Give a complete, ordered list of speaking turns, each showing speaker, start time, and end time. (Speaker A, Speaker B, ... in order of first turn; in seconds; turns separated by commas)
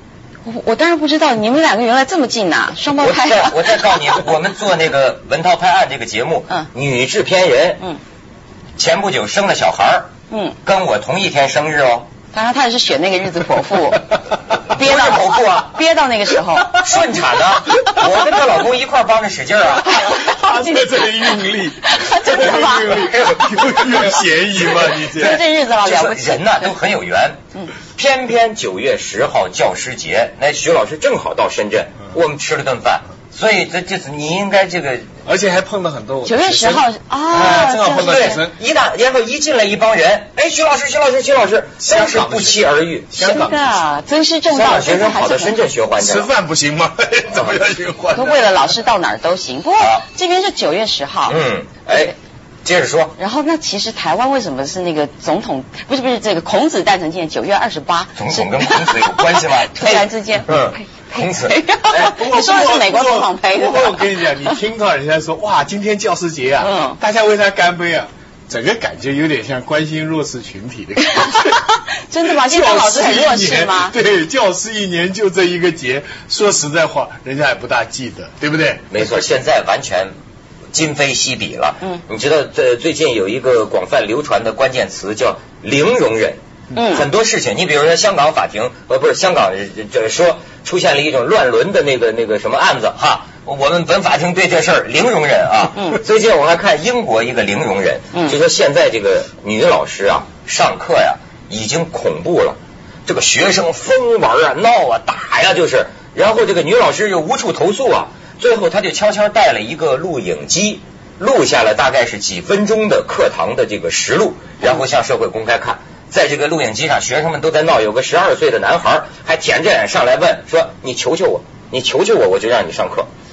Speaker A: 0.5-4.2, Speaker B: 3.0-7.8, Speaker B: 8.8-10.1, Speaker A: 10.3-10.6, Speaker B: 10.6-12.1, Speaker A: 12.3-14.1, Speaker A: 14.7-16.8, Speaker B: 14.7-15.7, Speaker B: 16.7-20.0, Speaker C: 19.9-25.4, Speaker A: 20.1-21.1, Speaker A: 21.8-23.1, Speaker B: 22.4-23.4, Speaker A: 24.9-26.6, Speaker B: 25.2-27.4, Speaker B: 27.9-35.1, Speaker C: 35.2-38.5, Speaker A: 36.2-38.4, Speaker B: 37.4-43.1, Speaker C: 41.8-43.8, Speaker A: 43.2-45.6, Speaker B: 44.5-46.3, Speaker C: 46.0-48.8, Speaker A: 48.1-51.4, Speaker B: 49.8-50.0, Speaker B: 51.3-53.1, Speaker A: 53.2-64.3, Speaker B: 58.2-62.1, Speaker C: 61.9-71.7, Speaker A: 66.6-67.0, Speaker A: 72.1-74.0, Speaker C: 72.3-78.9, Speaker B: 78.9-80.1, Speaker B: 80.7-123.1, Speaker A: 86.8-87.0